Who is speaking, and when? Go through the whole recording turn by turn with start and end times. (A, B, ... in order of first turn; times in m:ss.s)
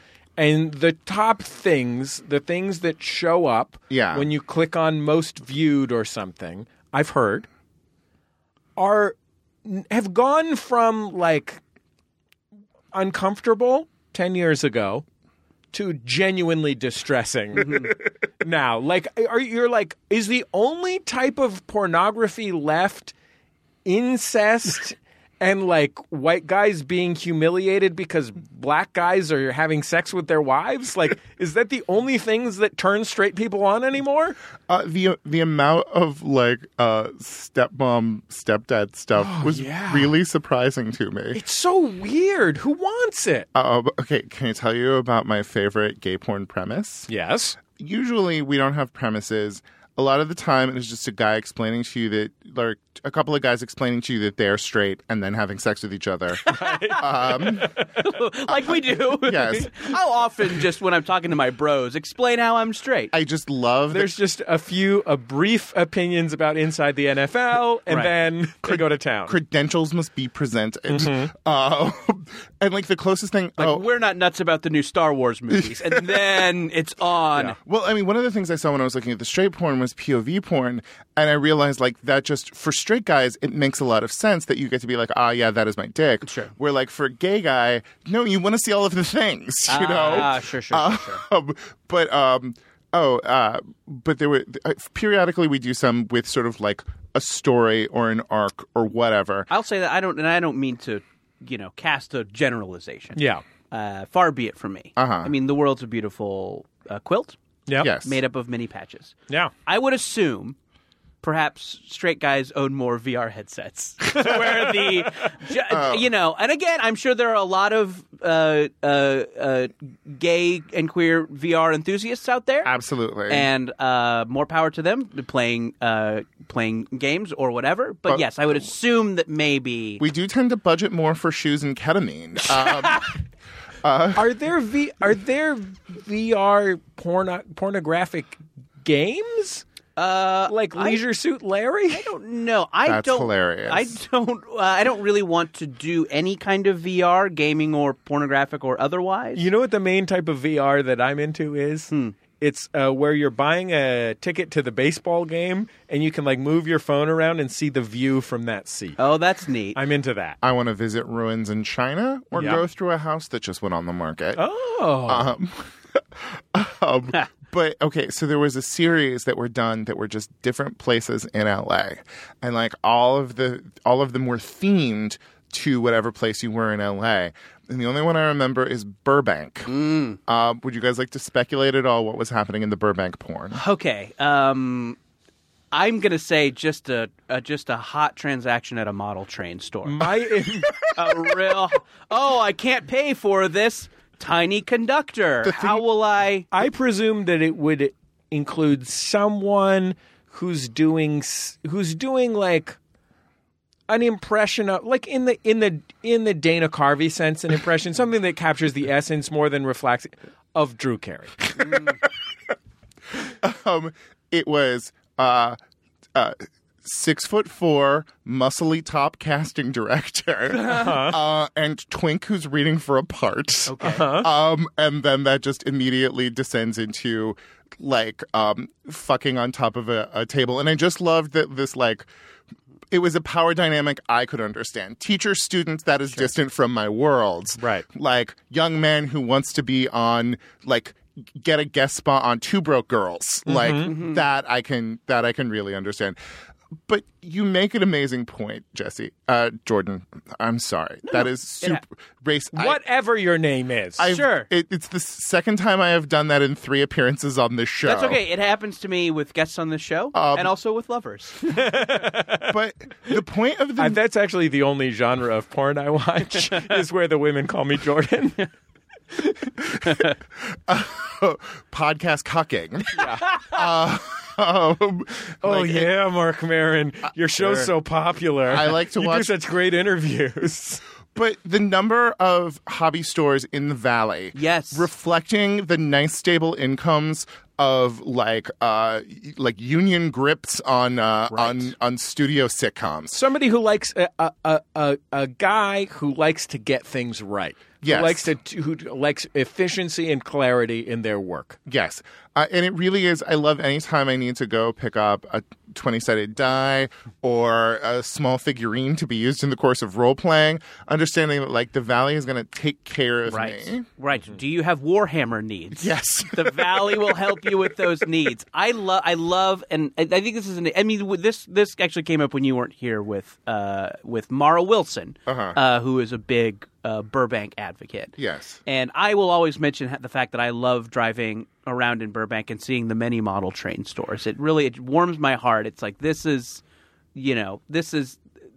0:00.4-0:07.5 A
0:03.9-0:04.3 B
0:08.8-0:11.6 A
0:12.9-0:15.0 A
0:15.7-0:23.1 A
0:17.6-0:17.9 C
0:23.8-0:34.4 A
0:34.7-0:41.4 B
0:39.2-0:40.2 A
0:41.3-0:43.5 A
0:43.6-0:47.1 B
0:47.1-0:47.6 A
0:47.6-0:57.7 B
0:56.5-0:57.9 A
0:56.6-0:56.9 C
0:58.0-1:03.1 C
0:58.5-1:00.0 B
1:03.1-1:04.1 B
1:03.9-1:09.4 A
1:08.6-1:13.9 B
1:10.9-1:11.3 A
1:13.6-1:17.6 C
1:15.6-1:16.3 B
1:17.6-1:39.5 B
1:26.2-1:26.5 C
1:29.7-1:31.2 C
1:39.5-1:43.2 C
1:43.2-1:43.4 A
1:43.7-1:47.4 C
1:45.0-1:45.3 B
1:47.8-1:48.2 B
1:48.0-1:50.6 C
1:51.2-2:02.7 C
1:54.2-1:55.0 A
1:55.7-1:56.1 B
2:02.6-2:03.5 B
2:03.3-2:10.0 C
2:10.0-2:13.1 B
2:12.6-2:13.0 C
2:13.8-2:14.4 B
2:14.2-2:19.6 A
2:20.0-2:21.0 C
2:20.5-2:22.1 A
2:21.9-2:29.5 C
2:22.8-2:24.0 B
2:29.4-2:39.0 A
2:31.9-2:32.2 C
2:39.0-2:39.8 C
2:39.8-2:40.4 A
2:40.4-2:44.4 B
2:42.4-2:42.6 A
2:44.4-2:45.3 A
2:45.0-2:59.7 B
2:59.7-3:00.2 C
3:00.3-3:03.6 B
3:03.5-3:05.0 C
3:05.7-3:10.1 C
3:09.8-3:10.8 A
3:11.0-3:16.5 C
3:15.4-3:15.8 B
3:16.5-3:22.8 A
3:23.9-3:31.7 A
3:33.4-3:35.6 B
3:36.2-3:52.1 B
3:40.7-3:41.2 A
3:43.7-3:44.1 C
3:43.8-3:44.3 A
3:52.9-4:06.2 B
3:57.6-3:57.8 A
4:03.5-4:03.9 A
4:03.9-4:04.2 C
4:06.9-4:12.8 B
4:11.1-4:11.8 C
4:12.5-4:14.1 A
4:14.0-4:18.2 B
4:14.1-4:14.5 C
4:17.8-4:21.4 C
4:20.1-4:20.5 B
4:21.5-4:22.5 A
4:22.5-4:24.0 B
4:23.8-4:28.5 A
4:29.2-4:29.4 A
4:30.4-4:35.9 B
4:33.0-4:33.3 A
4:35.4-4:40.8 A
4:37.4-4:37.7 B
4:38.5-4:39.3 B
4:41.2-4:53.2 B
4:44.4-4:44.9 C
4:51.3-4:51.7 C
4:53.1-5:01.6 A
4:57.8-4:58.3 B
5:01.7-5:13.8 B
5:13.3-5:36.6 C
5:15.8-5:17.5 B
5:25.3-5:25.6 B
5:28.2-5:28.6 B
5:37.2-5:38.2 C